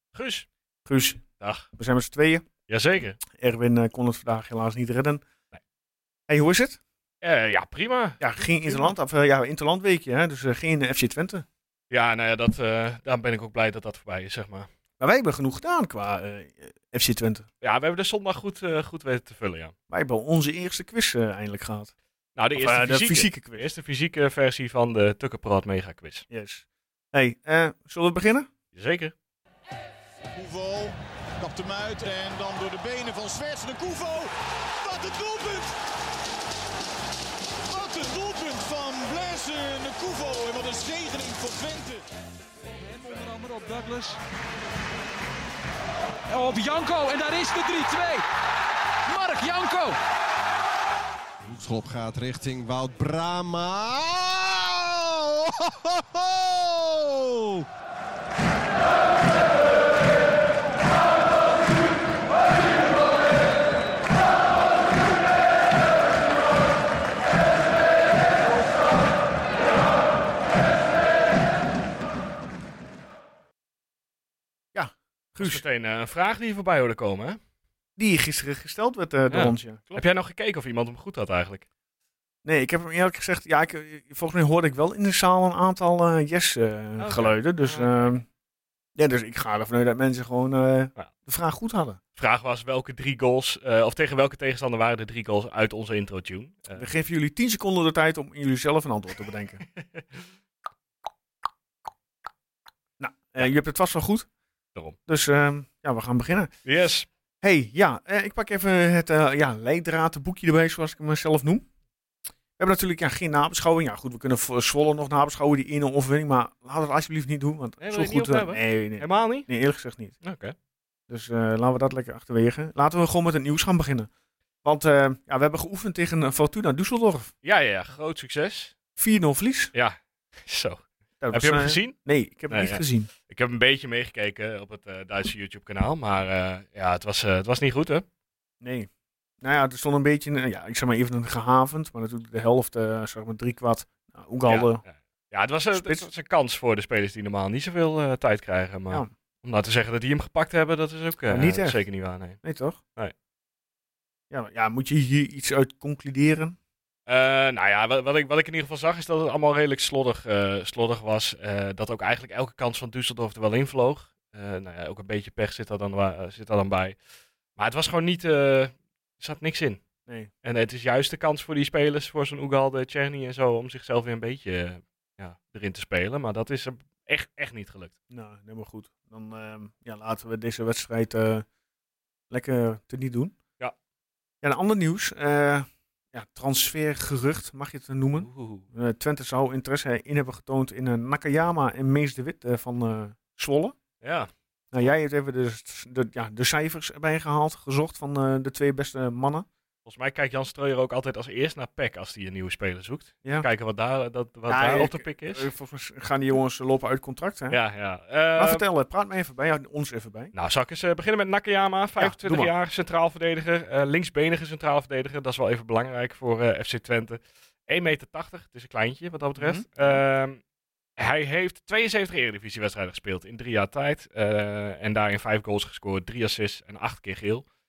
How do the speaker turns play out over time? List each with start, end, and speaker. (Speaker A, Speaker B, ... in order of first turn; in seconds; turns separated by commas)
Speaker A: 0.1-0.5, Speaker B: 0.8-1.2, Speaker A: 1.4-1.7, Speaker B: 1.8-2.4, Speaker A: 2.7-3.2, Speaker B: 3.3-5.2, Speaker B: 6.3-6.8, Speaker A: 7.2-8.9, Speaker B: 8.2-11.4, Speaker A: 11.9-14.7, Speaker B: 15.0-17.5, Speaker A: 17.6-19.7, Speaker B: 19.9-21.9, Speaker A: 22.4-26.2, Speaker B: 22.6-23.7, Speaker B: 26.3-28.5, Speaker A: 28.7-29.1, Speaker C: 30.3-35.8, Speaker C: 37.7-42.0, Speaker D: 42.8-44.2, Speaker D: 46.3-48.2, Speaker D: 49.1-50.0, Speaker E: 51.4-57.6, Speaker B: 74.7-75.6, Speaker A: 75.4-77.4, Speaker B: 78.0-80.0, Speaker A: 79.3-81.6, Speaker B: 82.4-88.2, Speaker A: 87.0-87.9, Speaker B: 89.0-92.0, Speaker A: 92.2-96.9, Speaker B: 96.7-99.6, Speaker B: 103.0-104.3, Speaker B: 105.1-106.5, Speaker A: 106.6-107.1, Speaker B: 107.4-111.6, Speaker B: 112.6-120.2, Speaker A: 117.8-119.5, Speaker A: 120.2-120.5, Speaker B: 121.1-124.1, Speaker B: 124.6-127.3, Speaker A: 127.4-128.8, Speaker B: 129.0-129.7, Speaker A: 129.7-131.9, Speaker B: 131.2-133.1, Speaker A: 132.5-138.0, Speaker B: 138.6-138.9, Speaker B: 139.4-144.8, Speaker A: 144.5-152.4, Speaker B: 145.7-146.1, Speaker B: 151.3-151.8, Speaker B: 152.4-152.8, Speaker B: 154.3-156.6, Speaker A: 157.1-167.0, Speaker A: 167.6-169.8, Speaker A: 170.4-177.9, Speaker B: 178.1-181.4, Speaker B: 182.3-183.3, Speaker B: 184.4-193.7, Speaker A: 188.2-188.7, Speaker A: 194.0-194.3, Speaker B: 194.7-199.4, Speaker A: 199.8-205.5, Speaker B: 204.5-207.6, Speaker A: 207.5-208.6, Speaker B: 208.4-210.3, Speaker A: 210.3-220.4, Speaker B: 212.0-212.5, Speaker B: 219.4-220.0, Speaker A: 221.0-227.4